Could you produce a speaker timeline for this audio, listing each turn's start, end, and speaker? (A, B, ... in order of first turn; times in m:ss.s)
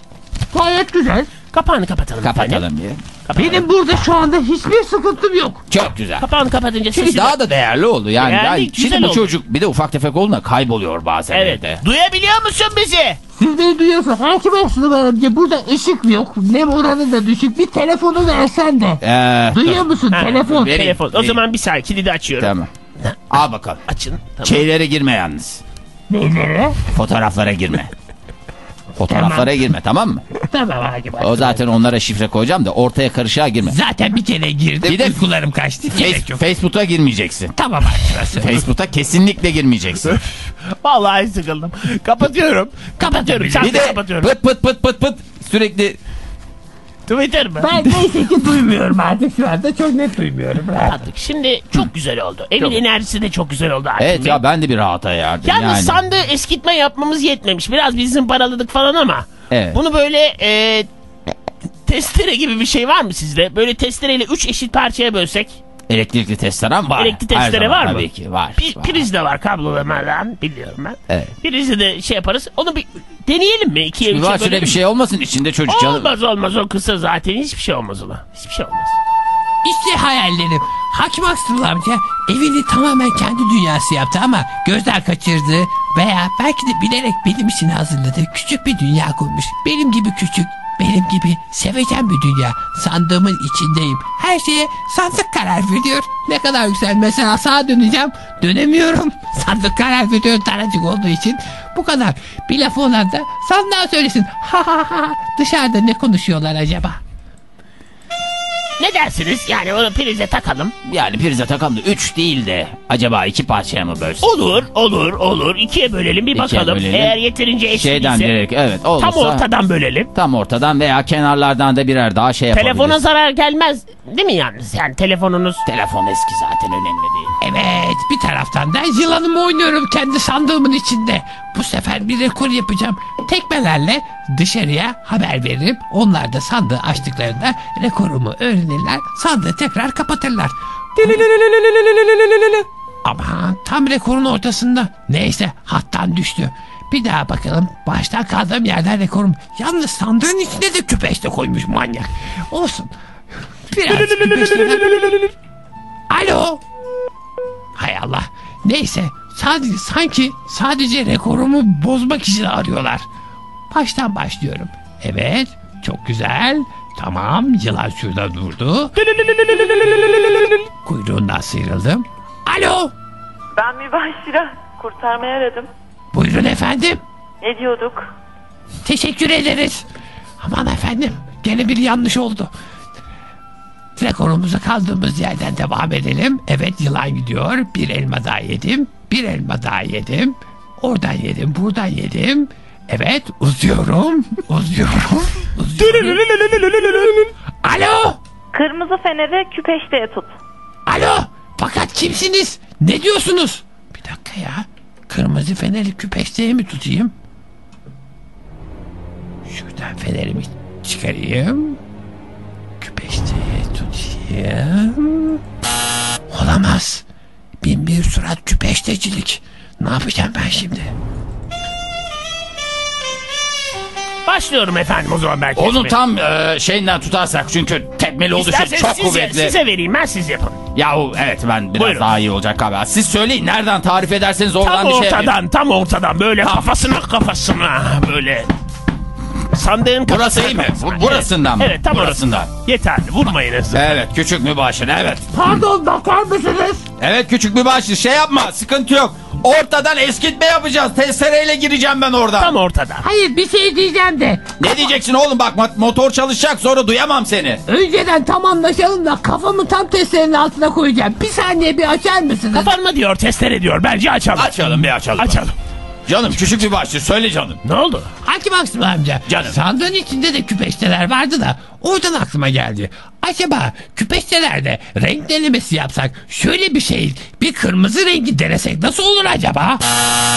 0:00.5-0:01.3 A
0:01.5-0:02.6 B
0:02.2-0:03.0 C
0:03.3-0:03.7 B
0:03.4-0:05.6 A
0:05.7-0:06.3 C
0:06.2-0:07.4 B
0:07.0-0:11.8 C
0:08.2-0:09.3 B
0:11.3-0:13.2 B
0:13.4-0:20.9 A
0:19.0-0:19.9 C
0:20.1-0:22.5 B
0:20.4-0:21.4 C
0:22.4-0:22.7 C
0:23.3-0:23.8 C
0:23.9-0:24.7 B
0:24.4-0:25.6 C
0:26.1-0:26.8 A
0:26.9-0:27.9 C
0:29.0-0:30.2 C
0:29.0-0:29.6 A
0:30.5-0:31.6 A
0:31.2-0:33.8 C
0:33.6-0:36.4 A
0:34.8-0:35.2 C
0:35.9-0:37.5 C
0:37.6-0:38.6 A
0:38.3-0:40.2 C
0:40.8-0:44.3 B
0:43.0-0:44.0 A
0:43.6-0:46.0 C
0:47.1-0:47.7 B
0:47.6-0:51.0 A
0:50.8-0:54.4 B
0:54.0-0:56.0 C
0:55.4-1:00.9 B
0:59.5-0:59.8 C
1:01.9-1:05.6 B
1:05.9-1:09.0 C
1:07.0-1:14.8 B
1:14.1-1:16.1 C
1:15.7-1:19.0 B
1:19.6-1:47.0 A
1:48.8-1:50.7 B
1:50.8-1:54.3 C
1:54.2-1:58.3 B
1:56.3-1:57.2 C
1:57.7-1:59.4 C
1:59.0-2:00.1 B
2:00.2-2:03.0 C
2:02.5-2:05.6 B
2:05.7-2:07.3 C
2:07.4-2:32.9 A
2:33.7-2:35.0 A
2:36.1-2:36.6 A
2:37.8-2:43.1 A
2:43.7-2:48.9 A
2:50.8-2:52.9 A
2:53.6-2:55.7 D
2:56.1-2:57.0 A
2:57.4-2:58.1 D
2:58.8-2:59.8 A
3:00.4-3:02.5 A
3:04.0-3:17.1 A
3:17.6-3:18.2 A
3:18.5-3:20.3 D
3:20.9-3:27.1 A
3:29.5-3:31.8 A
3:32.8-3:35.4 A
3:36.3-3:37.0 A
3:37.6-3:40.9 A
3:44.3-3:46.0 B
3:45.6-3:49.6 C
3:48.3-3:50.6 B
3:50.8-3:55.3 C
3:51.8-3:52.1 B
3:54.6-3:58.5 B
3:56.4-3:56.7 C
3:59.5-4:03.9 B
4:00.1-4:02.5 C
4:03.7-4:05.6 C
4:05.3-4:06.9 A
4:07.0-4:12.6 C
4:12.4-4:13.0 B
4:13.0-4:14.5 A
4:14.6-4:17.6 C
4:17.7-4:22.7 A
4:22.5-4:24.6 B
4:24.4-4:25.4 C
4:25.2-4:25.5 B
4:26.1-4:27.6 C
4:27.6-4:28.1 B
4:28.2-4:39.8 A
4:29.3-4:29.6 C